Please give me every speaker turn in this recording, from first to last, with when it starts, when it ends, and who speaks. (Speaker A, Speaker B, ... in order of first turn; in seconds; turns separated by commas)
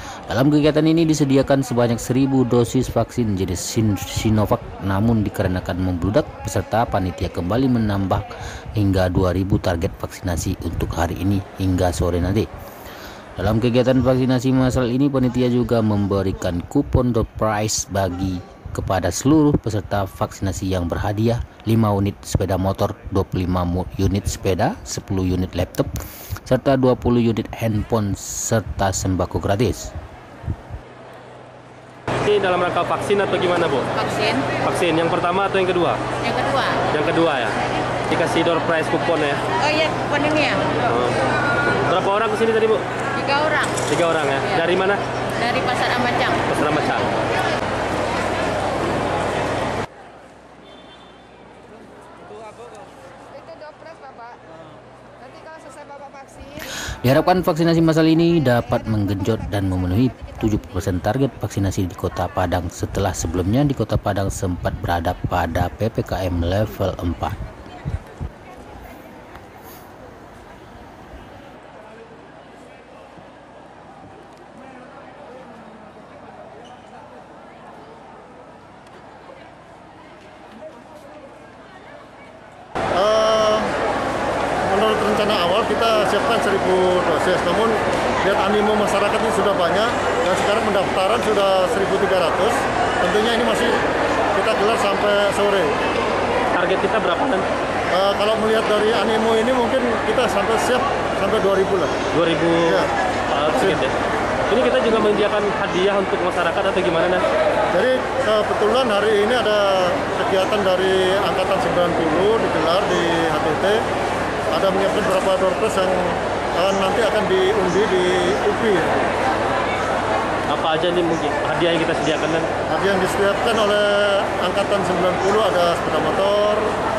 Speaker A: 0.3-12.5, Speaker A: 13.4-25.9, Speaker A: 26.4-29.9, Speaker B: 32.2-33.9, Speaker C: 34.0-34.5, Speaker B: 34.6-36.0, Speaker C: 36.2-36.9, Speaker B: 36.9-37.5, Speaker B: 38.1-39.4, Speaker C: 39.6-40.7, Speaker B: 40.8-42.8, Speaker C: 43.2-43.9, Speaker B: 43.8-45.0, Speaker C: 45.4-46.5, Speaker B: 46.5-47.1, Speaker A: 56.4-67.4, Speaker D: 82.9-83.8, Speaker D: 84.6-93.8, Speaker D: 94.3-95.7, Speaker B: 96.5-97.5, Speaker D: 97.9-102.0, Speaker B: 102.1-103.9, Speaker D: 102.6-102.9, Speaker D: 103.5-103.8, Speaker B: 104.5-107.3, Speaker D: 107.7-113.8, Speaker D: 114.5-119.0, Speaker B: 120.5-122.5, Speaker D: 122.7-126.7